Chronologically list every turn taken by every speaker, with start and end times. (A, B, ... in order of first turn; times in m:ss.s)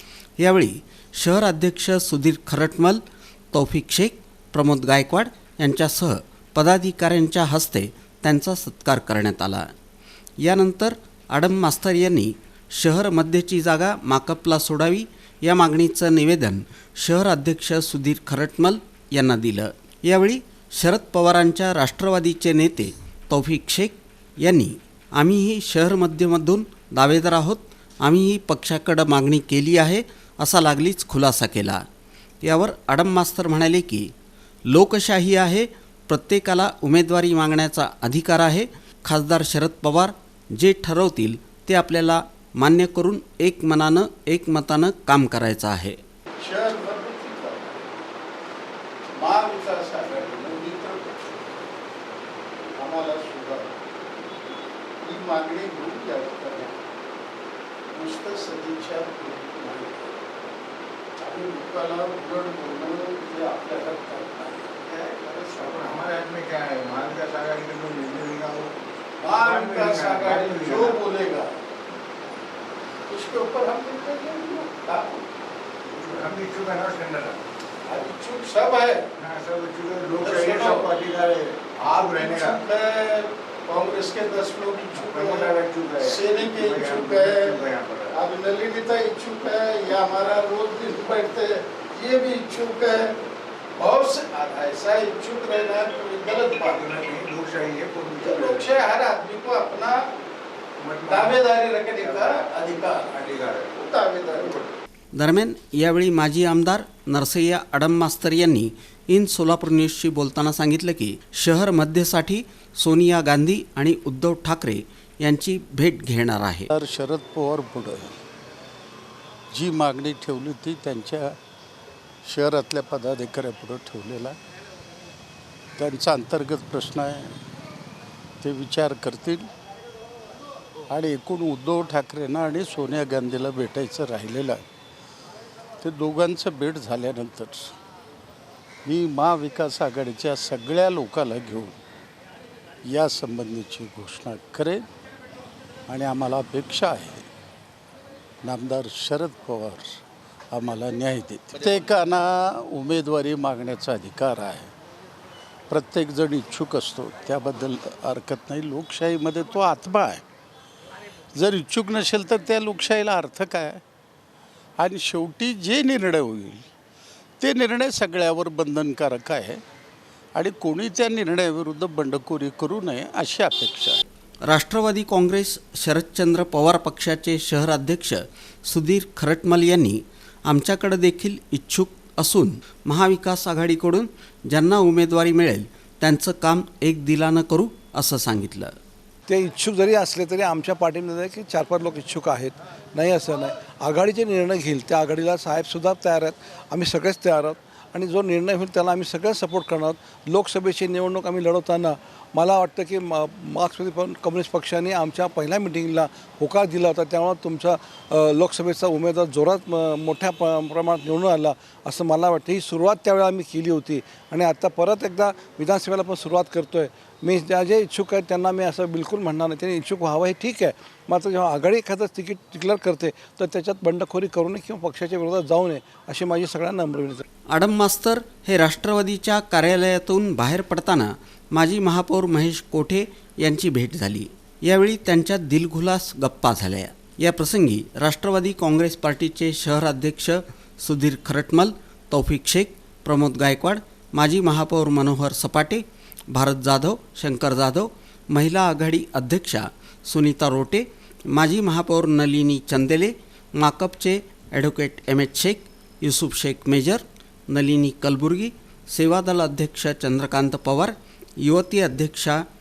0:00.4-0:03.0 A
0:03.5-0:09.6 A
0:10.4-0:31.8 A
0:32.4-0:34.1 A
0:34.7-0:46.0 A
0:46.4-0:47.8 B
0:49.2-0:51.2 B
0:52.7-0:53.7 B
0:55.0-0:56.7 B
0:57.9-1:00.0 B
1:01.2-1:06.1 B
1:05.5-1:11.0 C
1:09.2-1:11.5 B
1:13.1-1:15.2 B
1:15.9-1:17.4 C
1:17.8-1:19.0 B
1:19.2-1:22.6 C
1:20.2-1:20.9 B
1:21.8-1:33.2 B
1:24.9-1:28.2 C
1:33.8-1:37.0 B
1:36.4-1:38.8 C
1:38.2-1:40.0 B
1:40.8-1:43.8 C
1:41.0-1:43.1 B
1:43.7-1:44.7 B
1:45.1-1:56.7 A
1:56.7-1:58.2 D
1:59.5-2:01.4 D
2:02.2-2:04.4 D
2:05.8-2:07.3 D
2:08.4-2:09.5 D
2:10.9-2:14.6 D
2:15.8-2:17.7 D
2:18.8-2:21.8 D
2:22.8-2:24.9 D
2:25.9-2:27.3 D
2:28.4-2:30.0 D
2:30.5-2:34.7 D
2:35.7-2:40.2 D
2:41.4-2:43.8 D
2:44.8-2:46.6 D
2:47.4-2:49.6 D
2:50.3-2:54.0 D
2:54.4-3:08.7 A
3:09.3-3:47.2 E
3:47.5-4:22.4 A